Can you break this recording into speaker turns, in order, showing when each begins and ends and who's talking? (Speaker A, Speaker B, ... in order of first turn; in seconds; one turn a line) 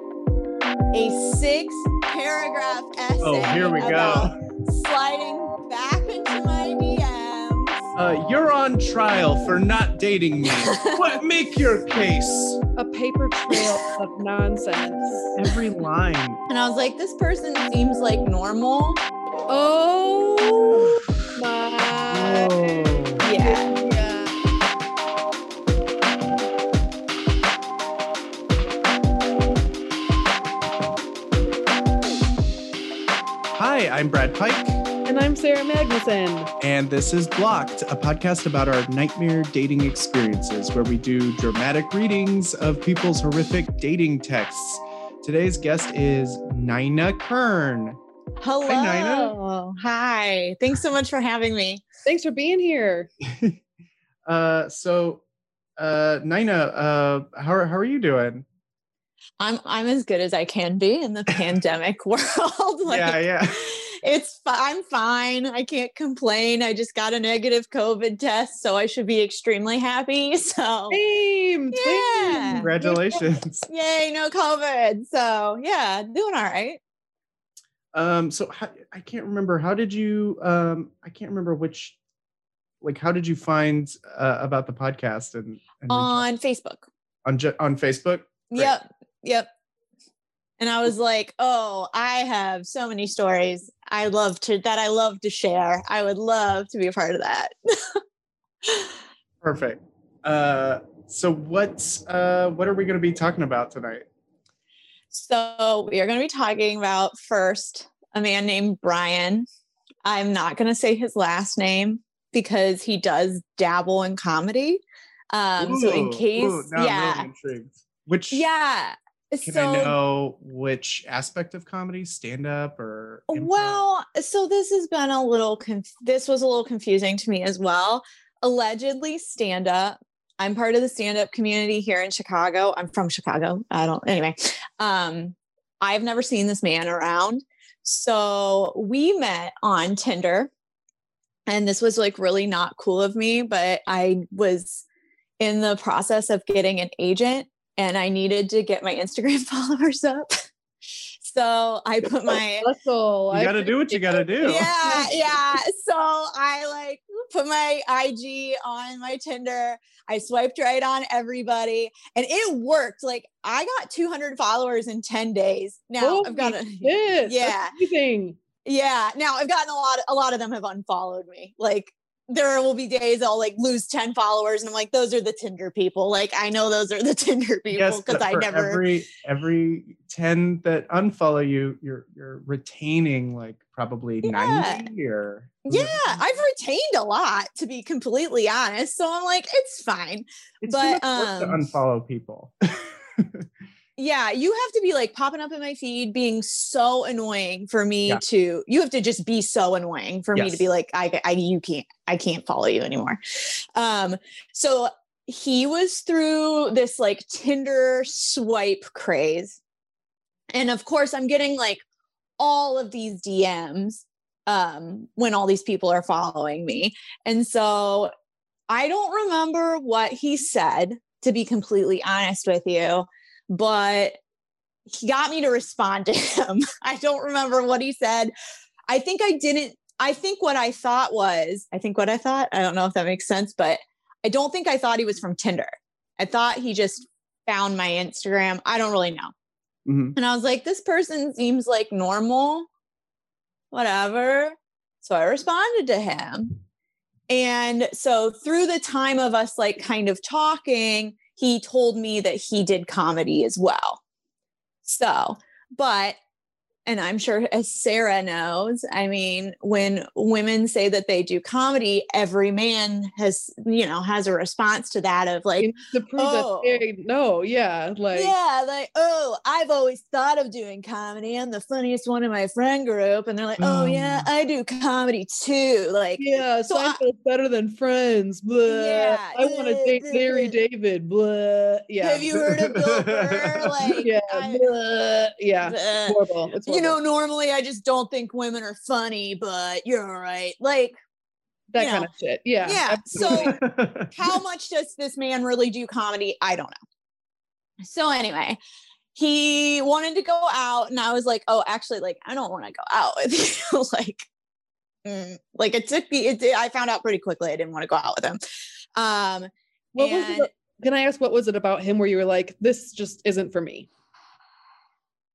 Speaker A: 0.9-7.9
Speaker B: 3.2-4.4
Speaker B: 8.0-12.6
Speaker A: 10.5-11.1
Speaker C: 12.8-15.3
Speaker B: 15.3-16.4
Speaker A: 16.5-19.0
Speaker C: 19.5-24.3
Speaker B: 22.1-23.2
Speaker A: 23.2-23.7
Speaker B: 33.5-34.8
Speaker C: 35.1-36.5
Speaker B: 36.6-48.0
Speaker A: 48.4-51.8
Speaker B: 48.6-49.4
Speaker C: 52.0-53.1
Speaker B: 53.2-53.6
Speaker B: 54.2-55.2
Speaker B: 55.8-58.4
Speaker A: 59.4-71.0
Speaker B: 62.9-63.6
Speaker C: 70.9-73.2
Speaker A: 71.7-72.7
Speaker B: 72.6-73.7
Speaker A: 73.7-76.8
Speaker B: 77.9-82.0
Speaker B: 82.8-86.2
Speaker A: 85.9-86.8
Speaker B: 87.2-88.7
Speaker A: 88.5-89.5
Speaker A: 90.6-98.0
Speaker A: 98.6-98.9
Speaker B: 99.4-104.0
Speaker A: 105.1-109.5
Speaker A: 110.0-114.8
Speaker A: 115.3-117.3
Speaker B: 115.6-118.5
Speaker A: 118.3-120.0
Speaker B: 119.4-123.8
Speaker A: 123.3-140.5
Speaker A: 141.5-144.8
Speaker A: 145.4-150.3
Speaker A: 151.2-152.7
Speaker C: 152.6-155.1
Speaker B: 153.3-154.7
Speaker A: 154.4-167.7
Speaker C: 166.0-168.4
Speaker A: 168.6-178.8
Speaker B: 177.7-186.2
Speaker A: 184.2-184.9
Speaker A: 185.6-191.6
Speaker B: 190.6-193.4
Speaker A: 194.0-209.6
Speaker B: 200.3-200.6
Speaker A: 210.5-211.8
Speaker A: 212.4-218.1
Speaker A: 218.7-224.2
Speaker A: 224.9-228.3
Speaker A: 228.9-239.3
Speaker B: 239.8-240.2
Speaker A: 240.1-242.7
Speaker A: 243.7-246.6
Speaker A: 247.3-254.0
Speaker A: 254.8-256.2
Speaker A: 256.9-266.8
Speaker C: 265.6-268.3
Speaker A: 268.1-277.0
Speaker B: 273.6-274.3
Speaker C: 276.2-282.3
Speaker A: 278.7-280.6
Speaker A: 282.0-284.6
Speaker B: 282.4-283.9
Speaker C: 284.0-287.0
Speaker A: 285.6-290.9
Speaker C: 291.7-293.5
Speaker A: 291.8-292.1
Speaker A: 292.6-293.6
Speaker B: 293.2-294.1
Speaker A: 294.1-296.7
Speaker A: 297.8-298.6
Speaker A: 299.1-304.3
Speaker A: 305.0-308.4
Speaker A: 308.9-310.5
Speaker C: 309.9-313.9